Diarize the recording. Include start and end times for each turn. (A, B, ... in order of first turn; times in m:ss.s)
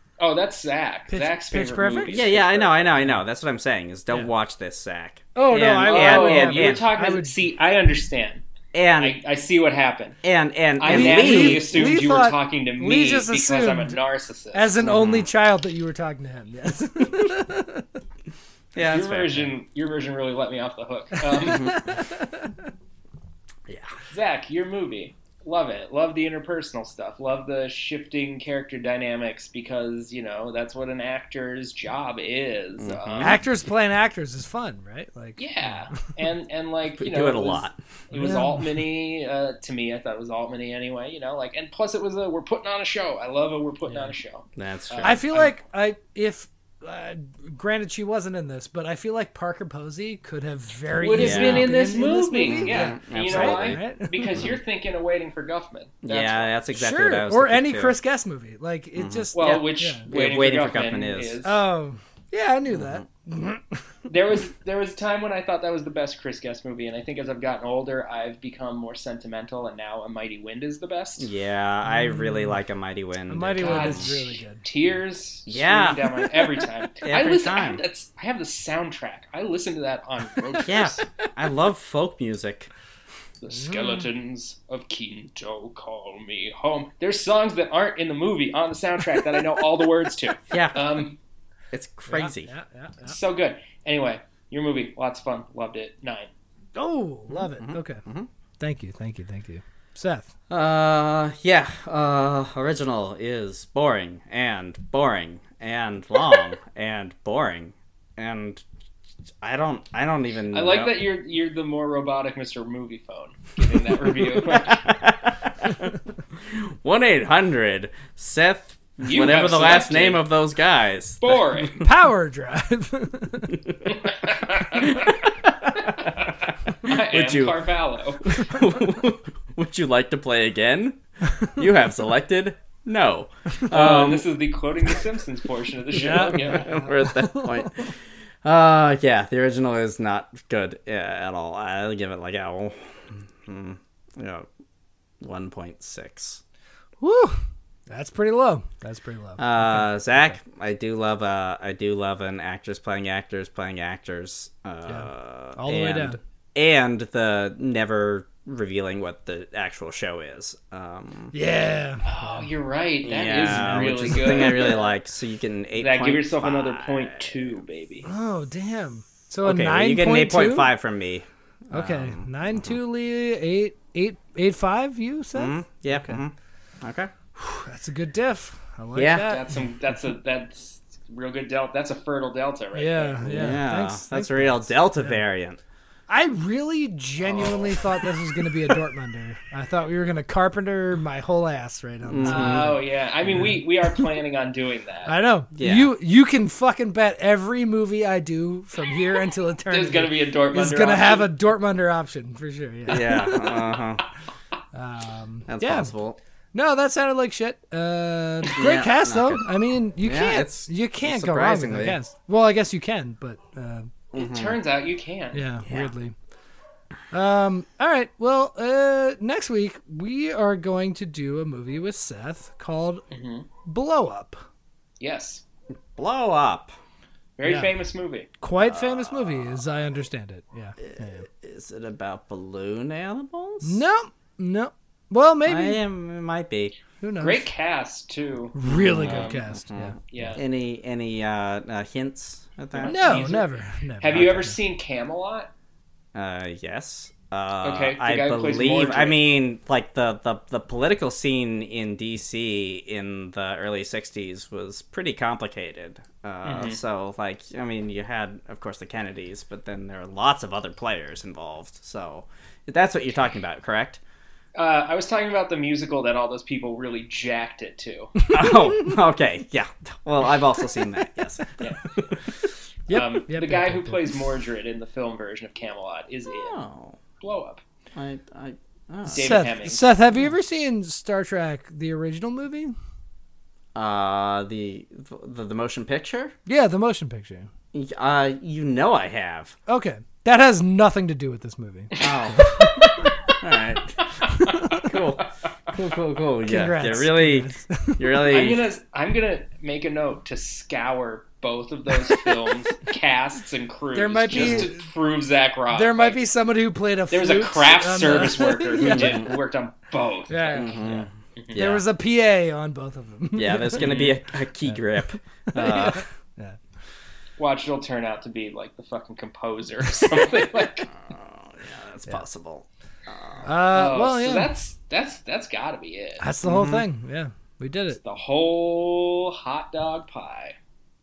0:00.2-0:02.8 A
0:01.1-0:02.3 B
0:02.1-0:06.9 C
0:05.3-0:07.4 B
0:05.8-0:08.4 A
0:08.7-0:09.2 C
0:09.0-0:10.2 A
0:10.2-0:11.9 C
0:10.8-0:14.7 A
0:10.8-0:14.0 B
0:14.5-0:17.8 B
0:14.8-0:15.3 C
0:18.7-0:19.5 C
0:18.8-0:21.8 A
0:21.3-0:22.5 B
0:21.4-0:21.9 C
0:23.7-0:23.9 C
0:24.1-0:33.4 A
0:32.8-0:33.4 C
0:33.2-0:35.4 B
0:35.4-0:45.5 A
0:37.0-0:37.8 C
0:38.1-0:38.7 B
0:43.9-0:44.1 B
0:44.6-0:45.2 C
0:45.0-0:54.4 B
0:51.0-0:56.5 A
0:51.2-0:51.8 C
0:52.4-0:54.6 C
0:56.0-0:58.0 C
0:56.7-1:00.1 B
0:58.9-0:59.6 C
0:59.3-1:01.6 A
1:00.1-1:01.4 C
1:01.4-1:03.8 B
1:02.7-1:03.0 C
1:04.1-1:11.3 A
1:11.2-1:14.1 C
1:11.8-1:12.6 B
1:13.3-1:14.6 B
1:13.6-1:21.0 A
1:15.5-1:17.8 C
1:20.6-1:22.7 C
1:23.4-1:31.2 A
1:23.5-1:24.1 B
1:30.5-1:31.0 C
1:31.7-1:32.5 C
1:32.1-1:33.2 B
1:33.0-1:36.3 A
1:36.7-1:38.0 B
1:37.3-1:38.3 C
1:38.6-1:40.3 B
1:40.5-1:48.6 C
1:49.4-1:51.0 C
1:50.5-1:54.9 A
1:54.2-2:01.9 C
1:59.0-2:00.3 A
2:01.2-2:01.8 A
2:01.8-2:03.6 B
2:03.5-2:03.8 C
2:03.9-2:05.2 A
2:05.8-2:08.3 A
2:06.8-2:07.6 C
2:08.2-2:14.3 C
2:13.7-2:16.7 A
2:15.9-2:17.7 B
2:16.3-2:17.9 C
2:18.4-2:24.5 C
2:25.2-2:26.4 C
2:27.0-2:30.4 B
2:29.4-2:41.3 C
2:34.9-2:36.2 B
2:41.3-2:42.5 B
2:42.0-2:44.9 A
2:43.0-2:47.6 C
2:43.5-2:44.7 B
2:45.7-2:48.1 A
2:48.0-2:50.7 B
2:49.4-2:52.8 C
2:51.7-2:56.2 B
2:55.3-2:57.1 C
2:57.4-2:59.7 B
2:58.9-2:59.4 C
2:59.2-3:03.5 A
3:02.7-3:05.2 B
3:03.2-3:05.6 C
3:06.1-3:14.1 B
3:07.2-3:08.1 A
3:12.0-3:12.8 C
3:12.2-3:15.1 A
3:15.1-3:23.2 B
3:15.5-3:15.9 C
3:19.7-3:21.3 A
3:22.9-3:24.0 C
3:24.7-3:25.9 B
3:25.5-3:26.2 C
3:26.5-3:33.9 B
3:28.5-3:32.0 C
3:34.1-3:34.6 C
3:34.1-3:35.5 A
3:35.3-3:36.1 B
3:35.6-3:35.9 C
3:37.1-3:43.0 B
3:43.1-3:43.5 A
3:43.6-3:44.4 B
3:45.0-3:45.4 A
3:46.0-3:46.7 C
3:47.4-3:48.3 A
3:47.4-3:47.7 B
3:48.4-3:51.3 B
3:48.6-3:49.7 C
3:50.8-3:53.8 C
3:53.6-3:55.8 B
3:55.5-3:56.7 C
3:57.0-3:57.5 B
3:57.2-3:59.5 A
3:58.5-4:00.0 B
3:58.7-4:03.3 C
4:00.1-4:00.4 A
4:02.7-4:03.5 A
4:02.8-4:04.6 B
4:04.0-4:05.5 A
4:06.1-4:24.0 C
4:07.6-4:09.2 A
4:16.4-4:16.8 A
4:24.5-4:28.1 A
4:28.2-4:28.9 B
4:28.3-4:32.4 C
4:31.6-4:31.9 A
4:32.9-4:34.2 B
4:32.9-4:36.6 A
4:36.3-4:37.0 C
4:37.2-4:37.6 A
4:37.9-4:39.5 C
4:39.1-4:42.7 B
4:39.1-4:39.8 A
4:43.7-4:46.3 C
4:46.5-4:47.5 B
4:47.7-4:49.6 C
4:49.7-4:53.1 B
4:51.9-4:52.2 A
4:52.0-4:54.0 C
4:54.3-4:55.2 A
4:54.7-4:58.7 C
4:56.4-4:58.0 B
4:58.3-5:06.2 A
5:03.9-5:04.8 B
5:04.3-5:04.7 C
5:05.7-5:09.2 B
5:07.1-5:11.7 A
5:08.8-5:09.3 C
5:10.3-5:10.8 B
5:10.5-5:11.8 C
5:11.6-5:13.8 B
5:13.3-5:16.0 C
5:13.8-5:14.2 A
5:15.5-5:16.6 B
5:17.4-5:20.9 A
5:20.9-5:23.5 C
5:23.4-5:24.5 B
5:23.7-5:26.3 A
5:26.2-5:28.0 B
5:26.4-5:26.8 C
5:27.9-5:30.6 A